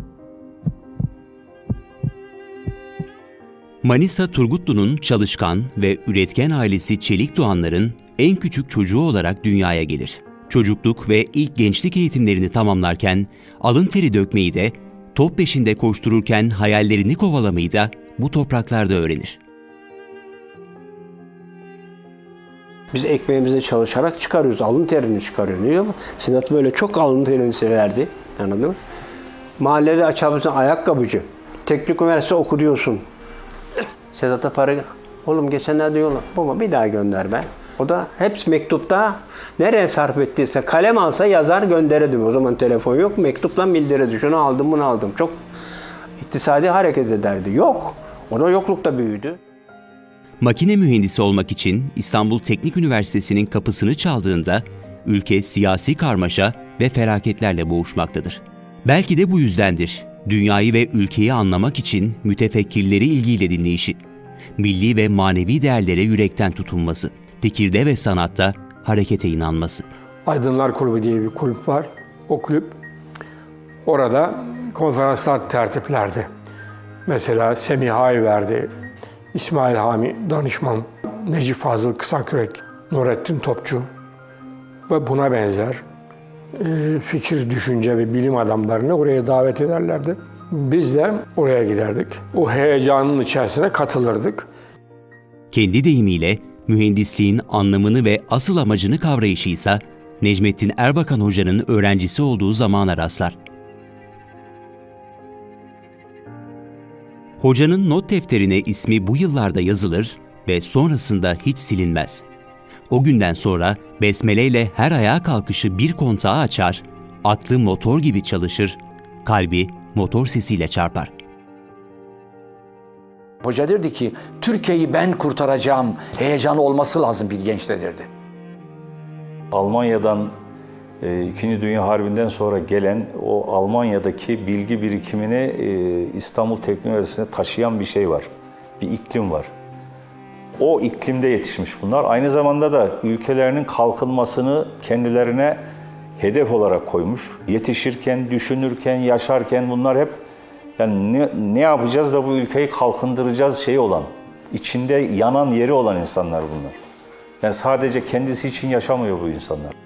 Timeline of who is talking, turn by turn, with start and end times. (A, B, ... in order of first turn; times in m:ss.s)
0:03.8-0:19.4 A
0:22.9-0:28.8 B
0:29.6-0:33.0 B
0:34.1-0:45.4 B
0:46.2-0:49.4 B
0:50.4-1:04.0 A
1:04.6-1:09.8 A
1:10.2-1:12.7 C
1:13.8-1:16.3 C
1:17.0-1:18.7 C
1:19.3-1:23.9 C
1:24.9-1:25.8 C
1:26.6-1:34.5 C
1:35.5-1:43.4 A
1:47.4-1:52.2 A
1:52.9-2:01.1 A
2:03.4-2:08.1 D
2:09.5-2:10.3 E
2:11.0-2:18.2 E
2:18.8-2:19.5 E
2:20.6-2:25.6 E
2:26.2-2:30.2 E
2:30.8-2:36.7 E
2:37.4-2:39.7 E